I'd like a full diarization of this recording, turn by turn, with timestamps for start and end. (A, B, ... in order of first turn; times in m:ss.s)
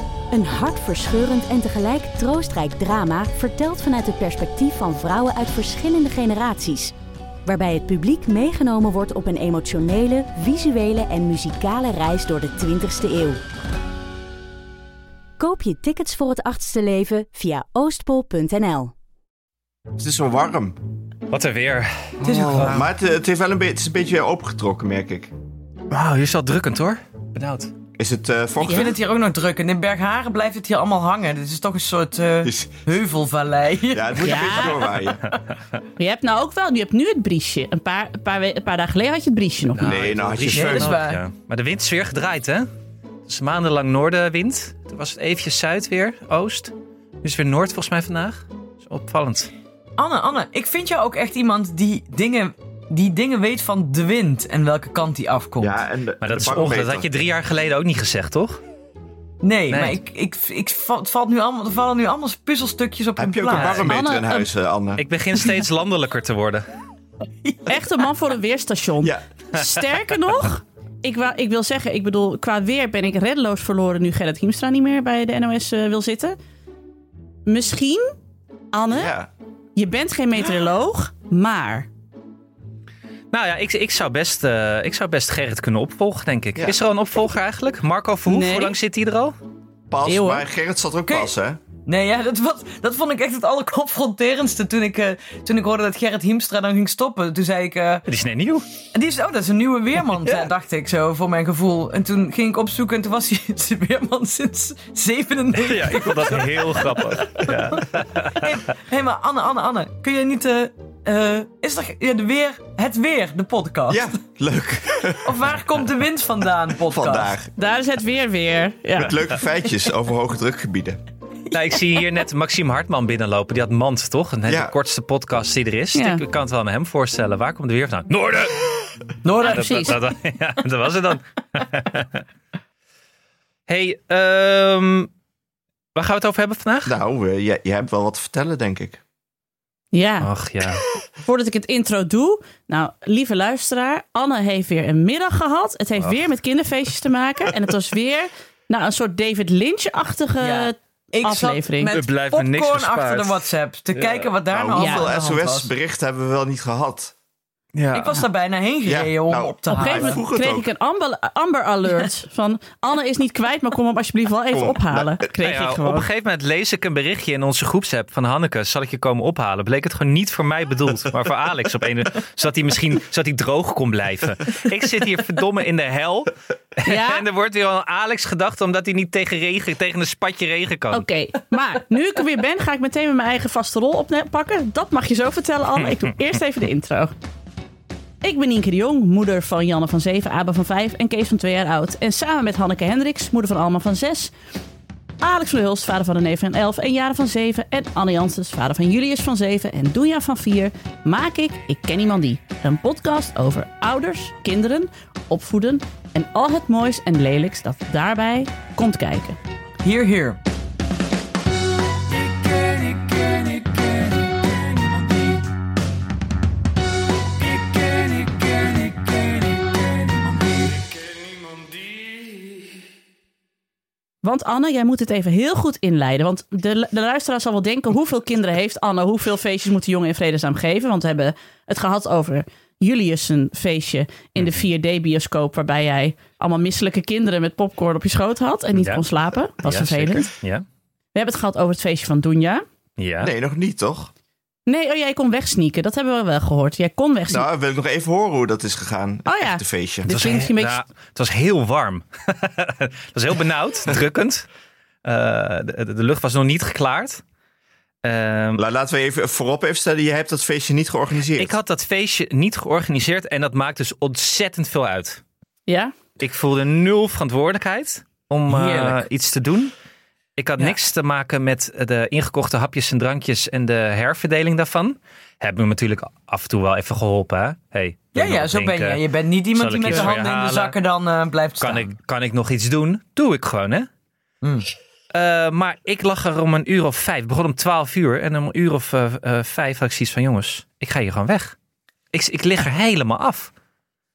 0:00.3-0:06.9 A
0:07.4-0:13.4 A
0:15.4-0:18.9 A
0:20.0-0:20.8 B
0:21.3-0:22.9 C
0:22.2-0:25.3 B
0:22.2-0:22.8 D
0:25.9-0:27.7 C
0:28.0-0:29.0 B
0:28.6-0:35.2 D
0:32.4-0:32.8 B
0:33.9-0:35.2 B
0:34.2-0:34.8 E
0:36.0-0:40.0 E
0:39.7-0:42.7 C
0:39.8-0:41.0 B
0:40.5-0:41.2 D
0:43.3-0:49.5 C
0:50.0-0:55.8 D
0:55.6-0:57.1 B
0:56.2-0:58.6 C
0:59.4-1:03.8 D
0:59.7-1:00.0 C
1:03.2-1:05.0 B
1:03.5-1:03.9 C
1:03.8-1:04.5 E
1:05.0-1:06.6 C
1:07.4-1:07.7 D
1:07.7-1:16.4 E
1:17.4-1:18.1 E
1:18.7-1:19.1 E
1:18.9-1:19.3 B
1:19.8-1:21.9 E
1:23.3-1:29.3 C
1:28.3-1:28.7 E
1:29.9-1:31.6 B
1:30.0-1:30.4 E
1:31.8-1:38.1 D
1:38.1-1:38.6 C
1:38.9-1:47.8 D
1:40.2-1:40.5 C
1:45.5-1:48.6 C
1:48.4-1:54.1 D
1:53.9-1:55.5 B
1:55.2-1:57.4 D
1:56.9-1:57.5 B
1:57.6-1:59.2 E
1:59.0-2:01.0 B
2:01.5-2:12.2 C
2:04.4-2:04.7 B
2:05.9-2:06.2 E
2:09.2-2:09.9 D
2:09.3-2:10.0 E
2:13.7-2:15.1 C
2:15.9-2:16.9 C
2:16.8-2:19.0 B
2:19.9-2:20.3 E
2:20.2-2:20.8 C
2:21.2-2:31.9 E
2:30.4-2:35.7 D
2:31.9-2:34.3 C
2:34.5-2:37.1 B
2:34.7-2:35.1 E
2:37.7-2:38.2 C
2:37.9-2:40.2 D
2:38.8-2:40.7 B
2:39.7-2:46.0 E
2:44.5-2:45.3 B
2:45.4-3:01.0 C
2:56.8-2:57.2 E
3:00.9-3:07.1 E
3:08.2-3:14.3 E
3:15.2-3:29.4 E
3:29.8-3:30.4 D
3:44.2-4:00.3 E
3:58.8-3:59.0 C
3:59.6-4:00.6 C
4:01.1-4:02.6 E
4:03.0-4:03.3 C
4:03.2-4:04.1 B
4:04.7-4:07.4 E
4:07.3-4:10.1 B
4:09.3-4:10.8 E
4:10.1-4:14.5 C
4:15.0-4:17.2 C
4:18.0-4:18.6 C
4:18.6-4:21.5 B
4:21.4-4:25.2 C
4:25.7-4:25.9 E
4:26.2-4:29.7 C
4:28.5-4:29.0 D
4:30.4-4:39.0 C
4:38.1-4:41.9 D
4:39.5-4:40.8 C
4:41.6-4:43.9 C
4:44.4-4:44.7 D
4:45.1-4:51.5 C
4:52.1-4:53.5 C